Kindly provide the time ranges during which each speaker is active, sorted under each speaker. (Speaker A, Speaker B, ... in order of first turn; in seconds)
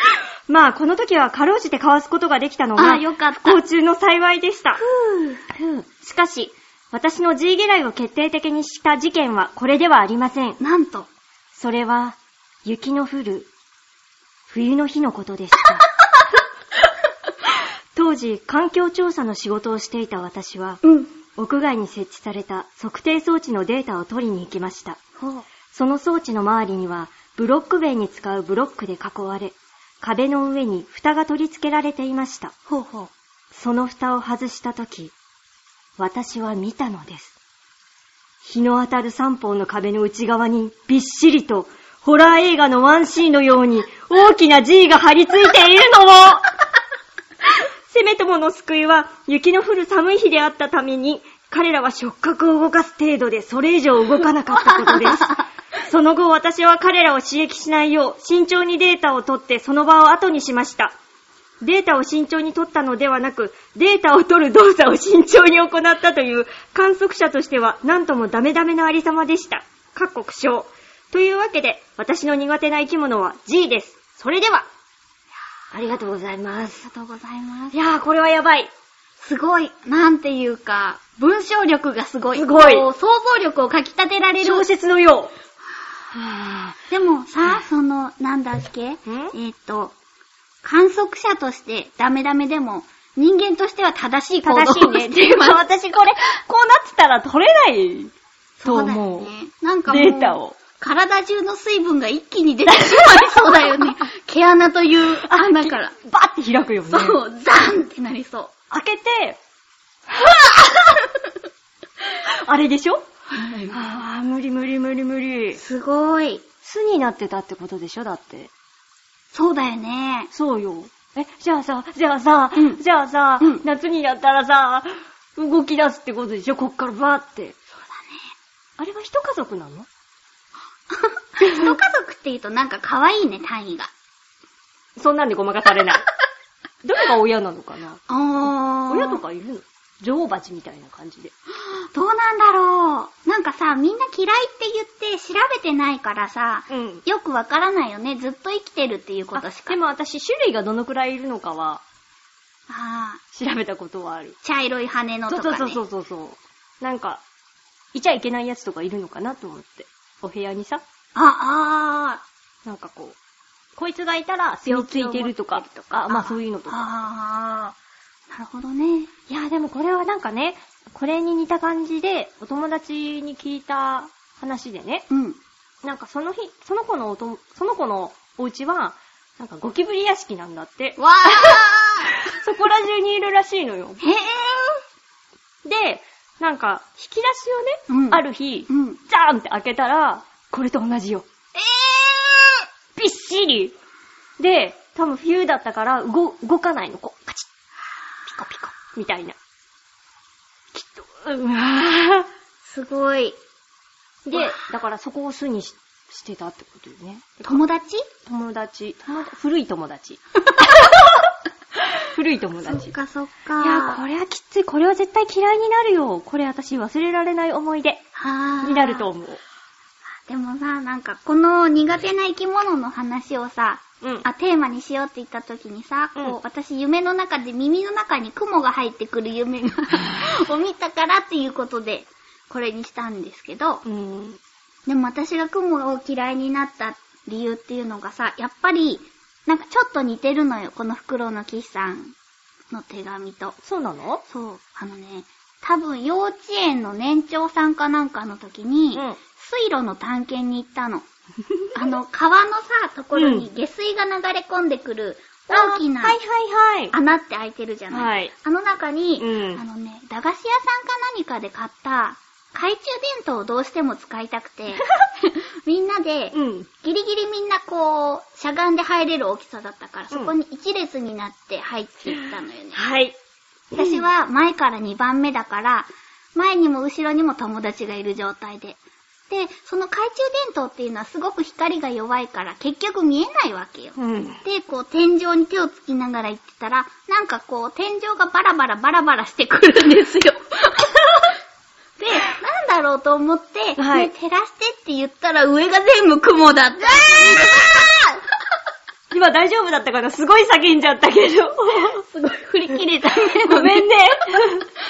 Speaker A: 0.5-4.8, 5.5-10.6, 11.5-13.5, 14.5-15.9, 17.9-20.8, 21.4-25.0, 25.7-32.5, 33.5-35.1, 36.0-37.4, 38.4-46.5, 47.9-61.0, 61.6-74.7, 75.7-76.9, 77.7-78.7, 82.3-82.9, 84.4-85.3, 86.1-86.8, 89.1-89.3, 94.4-98.1, 98.7-99.3, 99.9-100.6, 102.7-103.8, 105.2-107.2, 108.7-109.4, 110.1-110.9, 112.2-113.0, 113.7-115.6, 116.6-118.5, 120.3-127.6, 128.8-129.9, 131.4-131.8, 135.0-136.1, 136.8-141.3, 146.7-147.0, 149.3-151.8, 153.3-154.4, 155.3-157.2, 157.9-160.8, 162.7-163.2, 163.8-166.8, 169.3-175.1, 175.8-184.0, 185.7-191.3, 193.0-193.8, 194.4-197.5, 198.3-199.4, 200.7-202.3, 204.2-207.6, 208.3-211.3, 212.0-212.9, 213.6-218.0, 218.6-219.4, 233.8-234.4, 243.6-244.2, 248.9-249.2, 253.1-253.5, 255.5-256.9, 257.9-258.3, 259.2-259.6, 266.3-266.7, 272.1-273.2, 273.7-274.1, 284.0-284.4, 293.8-294.1, 297.0-297.8, 299.1-302.0, 303.4-304.7
Speaker B: 2.8-3.6, 4.8-5.5, 10.6-11.1, 20.8-21.1, 25.2-25.5, 32.7-33.1, 54.9-55.3, 76.8-77.8, 79.2-84.7, 86.9-90.0, 90.6-95.6, 98.6-106.0, 106.9-108.5, 113.3-113.8, 115.6-116.4, 119.3-120.3, 122.5-122.8, 127.9-128.2, 130.9-133.9, 138.1-139.2, 141.6-149.8, 152.7-153.2, 154.4-155.8, 161.2-162.2, 164.7-167.8, 168.3-169.1, 175.1-175.4, 181.0-182.4, 184.0-184.8, 187.9-189.0, 191.6-192.7, 202.6-203.4, 204.3-204.6, 207.4-208.1, 210.5-210.9, 212.6-214.0, 218.2-219.1, 220.3-233.8, 234.9-242.2, 242.7-243.6, 244.3-251.1, 251.7-256.2, 256.9-272.8, 273.7-278.8, 279.3-291.3, 292.0-298.2, 301.9-303.9